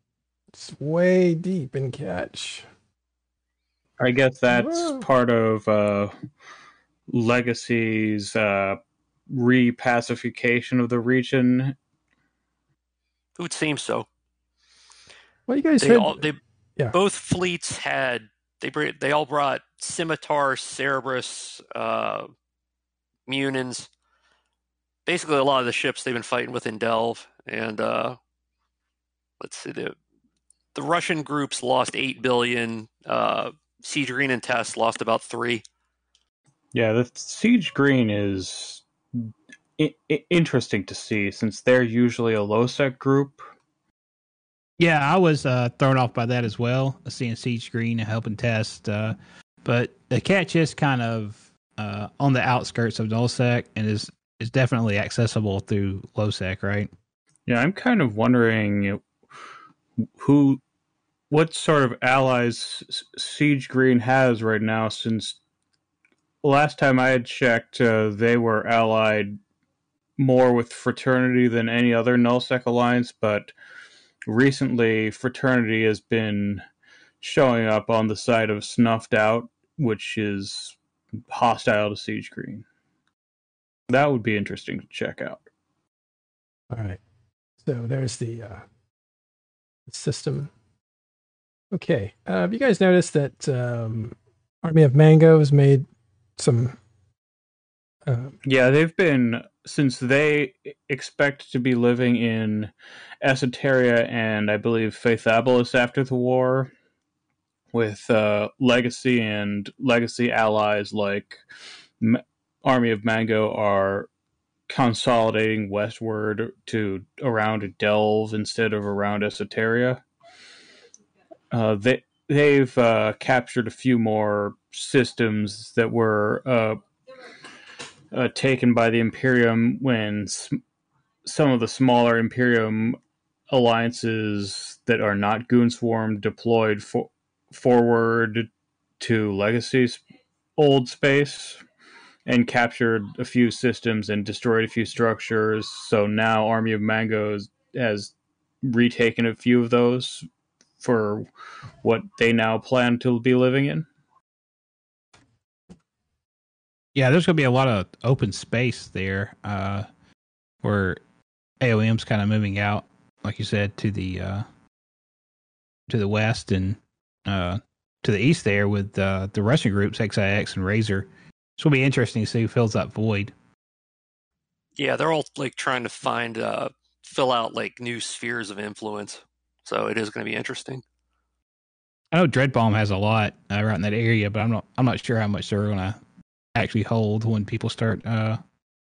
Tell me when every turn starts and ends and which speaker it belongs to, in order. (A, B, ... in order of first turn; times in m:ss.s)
0:00.5-0:02.6 A
0:04.0-0:06.1 B
0:04.5-0:05.0 A
0:07.1-0:11.8 B
0:13.4-0:14.1 C
0:15.5-0:16.2 A
0:15.8-0:16.4 C
0:16.9-0:22.3 C
0:23.3-0:23.9 C
0:25.1-0:28.2 C
0:29.4-0:30.0 C
0:30.8-0:35.6 C
0:36.7-0:43.4 B
0:44.8-0:56.9 D
0:57.5-0:59.0 B
1:00.2-1:00.6 B
1:01.3-1:05.4 B
1:06.4-1:09.4 B
1:10.2-1:13.5 B
1:14.3-1:16.6 B
1:17.2-1:20.8 B
1:21.3-1:22.6 B
1:23.9-1:25.5 B
1:26.7-1:27.0 A
1:27.6-1:28.6 A
1:29.9-1:30.5 A
1:31.7-1:35.9 A
1:36.4-1:36.8 A
1:38.1-1:38.4 A
1:38.4-1:46.7 B
1:47.7-1:51.4 B
1:52.0-1:54.1 B
1:54.7-2:00.0 B
2:01.5-2:06.8 B
2:08.1-2:10.6 B
2:11.2-2:13.0 B
2:13.5-2:18.5 B
2:19.0-2:20.0 B
2:20.6-2:21.6 B
2:22.3-2:30.3 B
2:30.8-2:31.3 B
2:31.8-2:33.9 B
2:37.0-2:39.9 D
2:40.6-2:41.0 D
2:41.6-2:44.4 D
2:45.9-2:51.1 D
2:51.6-2:53.3 D
2:54.8-3:00.8 C
3:02.1-3:06.0 D
3:06.6-3:08.4 D